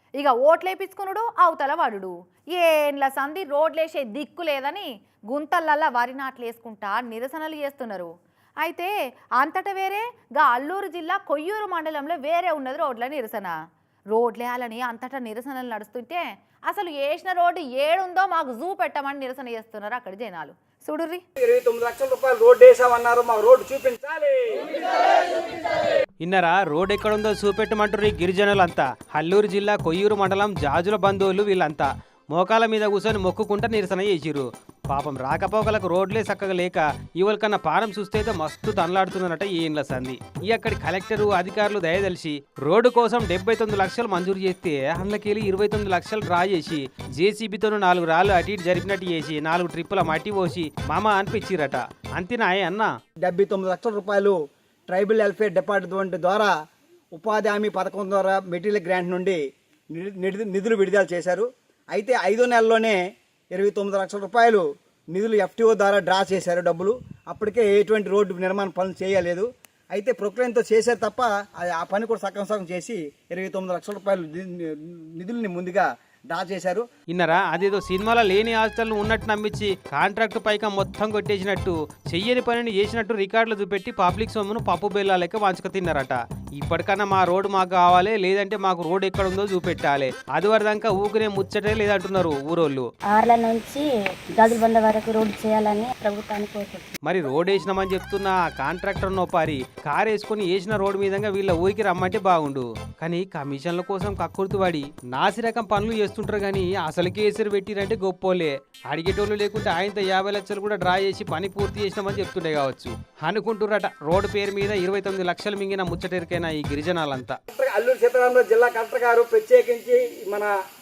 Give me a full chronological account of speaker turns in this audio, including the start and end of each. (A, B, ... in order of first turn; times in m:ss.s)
0:00.2-0:13.5 A
0:14.1-0:21.2 A
0:21.4-0:24.8 B
0:26.2-0:52.9 C
0:53.2-0:54.4 B
0:54.9-0:56.5 B
0:57.2-0:59.4 B
0:59.9-1:03.0 B
1:03.5-1:16.8 B
1:17.1-1:32.8 C
1:33.1-1:36.9 D
1:37.0-1:57.4 C
1:57.5-2:00.5 B